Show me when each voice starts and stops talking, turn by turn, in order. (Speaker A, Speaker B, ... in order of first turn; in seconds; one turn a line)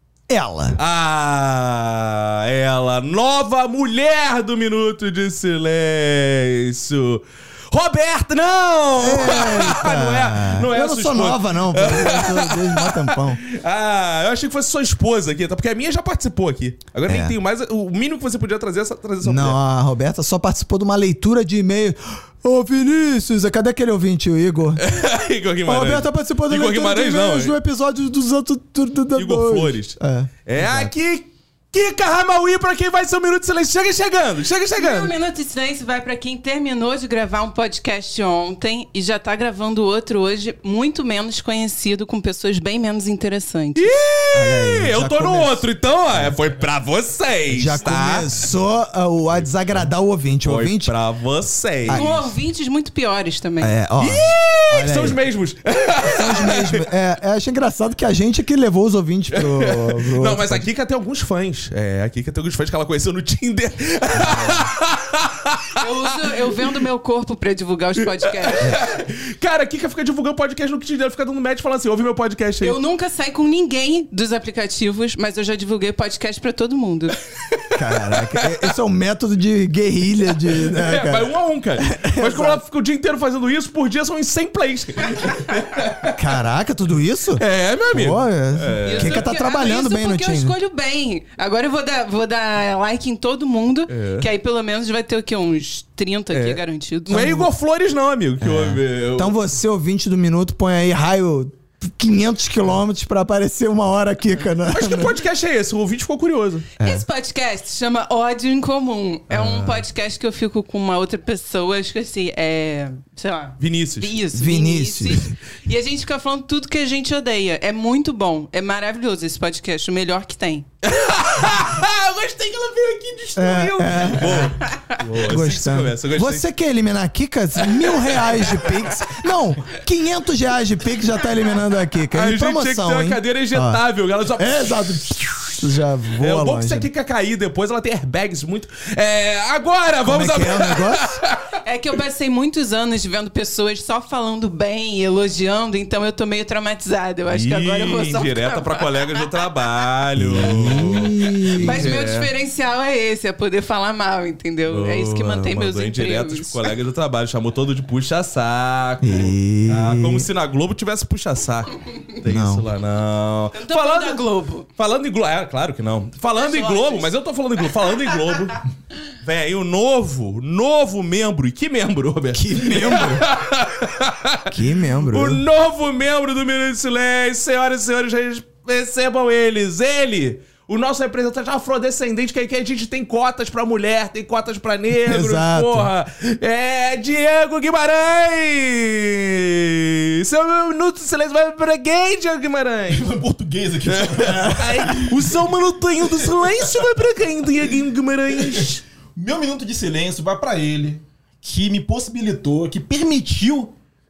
Speaker A: 0.3-0.8
Speaker B: 0.8-19.6
Speaker A: 9.0-13.4
Speaker A: 17.1-17.3
Speaker A: 19.2-24.8
Speaker B: 24.8-27.5
Speaker A: 25.6-30.9
Speaker B: 29.1-35.1
Speaker C: 34.8-44.0
Speaker B: 43.8-48.4
Speaker A: 44.3-46.3
Speaker A: 47.5-50.9
Speaker B: 50.4-52.1
Speaker A: 51.9-52.3
Speaker C: 51.9-53.7
Speaker A: 53.6-55.2
Speaker B: 54.0-56.8
Speaker A: 56.0-60.7
Speaker B: 59.3-66.4
Speaker A: 64.1-64.7
Speaker C: 65.8-68.8
Speaker B: 68.0-72.8
Speaker C: 72.6-77.2
Speaker B: 77.5-78.7
Speaker A: 77.7-82.6
Speaker B: 80.5-86.2
Speaker A: 86.1-90.5
Speaker B: 87.4-89.3
Speaker C: 88.8-97.5
Speaker B: 93.9-94.3
Speaker B: 96.3-99.3
Speaker A: 98.4-105.2
Speaker B: 104.6-106.7
Speaker A: 106.8-107.0
Speaker C: 106.8-120.7
Speaker A: 109.3-109.8
Speaker B: 113.6-114.2
Speaker A: 114.3-115.2
Speaker B: 120.8-126.4
Speaker A: 123.3-133.8
Speaker B: 127.8-128.8
Speaker B: 132.1-135.1
Speaker A: 134.4-136.9
Speaker B: 136.2-141.4
Speaker A: 140.0-141.0
Speaker C: 141.6-149.2
Speaker B: 147.3-152.3
Speaker A: 150.2-151.9
Speaker C: 151.5-156.7
Speaker B: 154.7-164.2
Speaker A: 159.0-160.3
Speaker A: 162.2-162.6
Speaker C: 163.6-164.7
Speaker B: 164.8-168.6
Speaker C: 166.4-167.1
Speaker B: 169.2-174.5
Speaker A: 172.3-173.2
Speaker A: 174.5-175.4
Speaker B: 175.1-193.2
Speaker A: 185.0-185.9
Speaker D: 192.9-195.4
Speaker B: 193.9-198.8
Speaker D: 196.2-196.8
Speaker D: 199.2-203.7